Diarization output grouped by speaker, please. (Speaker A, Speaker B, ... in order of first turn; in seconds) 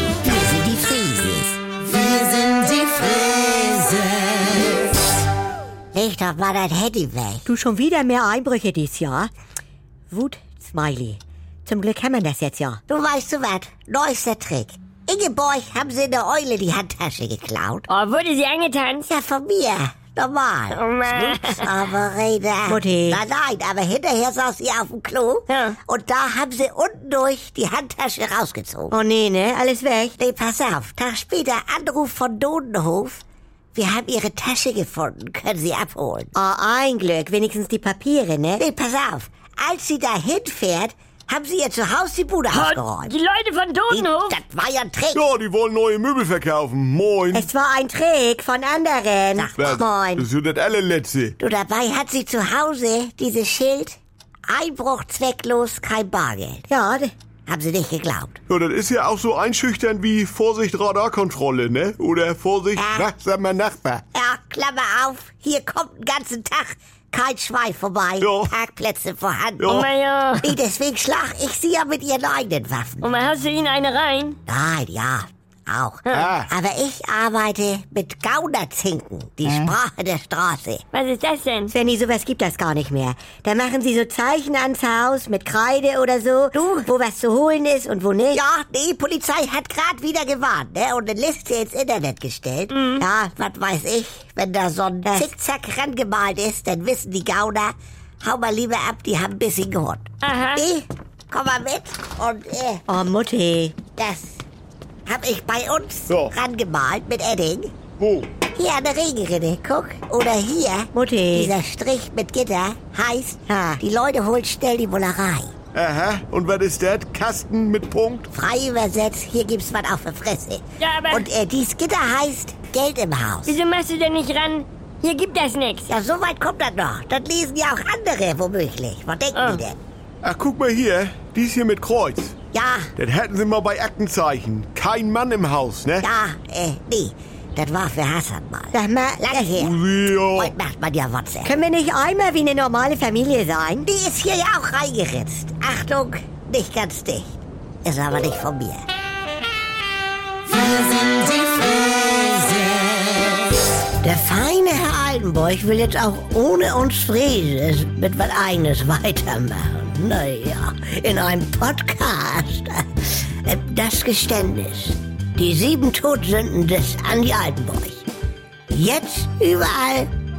Speaker A: 0.2-4.7, 5.9-7.5, 12.9-17.9, 19.1-29.0, 30.2-33.2, 33.8-36.3, 38.6-43.1, 43.9-45.2, 49.4-49.8, 51.4-54.0, 54.5-56.7, 57.5-58.4, 62.8-63.1, 64.2-69.8, 70.4-73.1, 74.5-80.8, 86.5-86.9, 88.3-102.9, 104.0-104.4, 105.1-107.7, 108.6-115.5, 118.3-123.6, 125.9-129.8, 132.5-132.9, 136.0-139.8, 140.3-141.6, 143.8-148.8, 151.1-151.5, 154.0-168.1, 168.7-170.1
Speaker B: 7.5-9.3, 10.1-12.8, 22.7-23.2, 28.9-30.2, 36.3-38.6, 47.3-50.2, 56.7-57.1, 81.7-88.4, 102.9-103.8, 110.9-111.5, 113.5-113.8, 138.7-139.6, 141.4-143.9
Speaker C: 17.9-19.1, 20.7-21.7, 25.5-25.8, 42.5-44.4, 69.7-70.5, 73.0-74.4, 80.9-81.7, 92.7-93.0, 100.2-100.7, 120.8-121.3, 123.5-125.9, 129.3-129.7
Speaker D: 45.1-47.5, 49.6-51.4, 58.5-64.0, 68.2-68.5, 69.6-69.9, 76.1-76.5, 79.5-79.7, 106.1-106.3, 108.0-108.3, 115.8-118.3, 130.2-132.4, 133.0-136.1, 139.6-140.5